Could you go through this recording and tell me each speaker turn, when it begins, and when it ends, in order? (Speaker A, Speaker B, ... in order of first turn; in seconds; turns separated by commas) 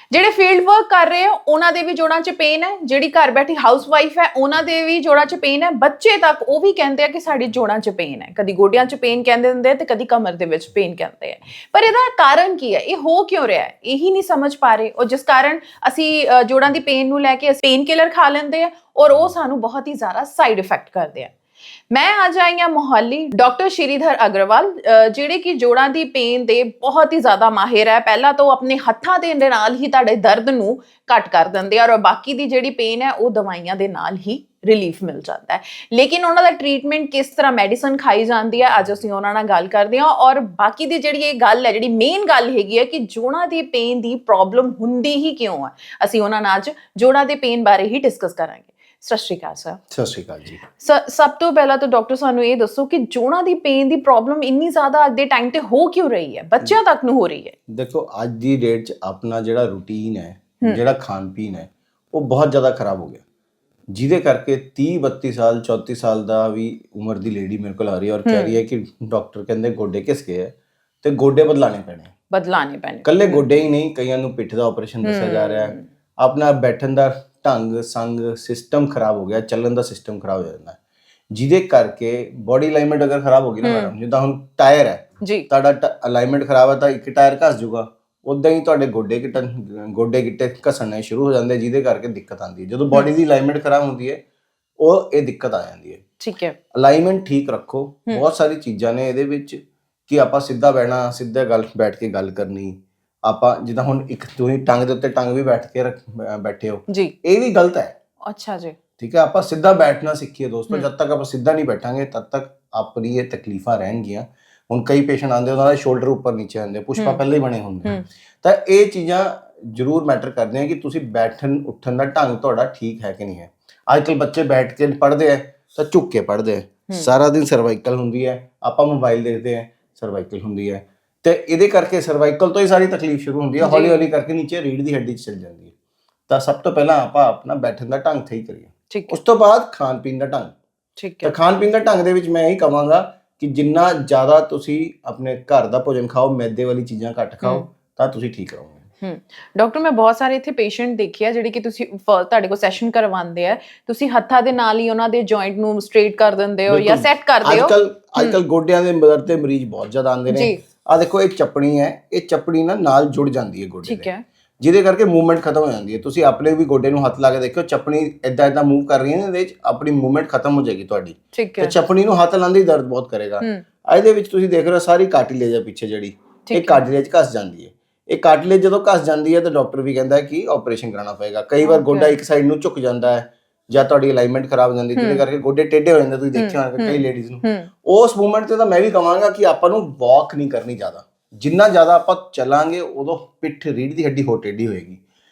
Speaker A: 0.1-21.3, Speaker A: 21.9-49.8, Speaker B: 49.9-50.6, Speaker A: 50.8-57.5, Speaker B: 57.7-63.2, Speaker B: 63.9-72.1, Speaker A: 68.2-68.6, Speaker A: 72.3-73.4, Speaker B: 73.0-80.8, Speaker A: 75.0-75.8, Speaker B: 81.3-94.2, Speaker A: 83.6-83.9, Speaker B: 94.8-96.0, Speaker A: 96.2-96.5, Speaker B: 96.7-107.9, Speaker A: 108.2-108.8, Speaker B: 109.0-135.7, Speaker A: 133.6-134.1, Speaker B: 136.3-140.5, Speaker A: 138.9-139.2, Speaker A: 141.0-141.3, Speaker B: 141.2-148.8, Speaker A: 149.0-158.4, Speaker B: 156.7-164.1, Speaker A: 160.3-160.6, Speaker A: 163.8-164.2, Speaker B: 164.6-195.0, Speaker A: 171.3-171.7, Speaker A: 176.4-176.8, Speaker A: 181.6-182.1, Speaker A: 184.9-185.2, Speaker A: 186.3-187.7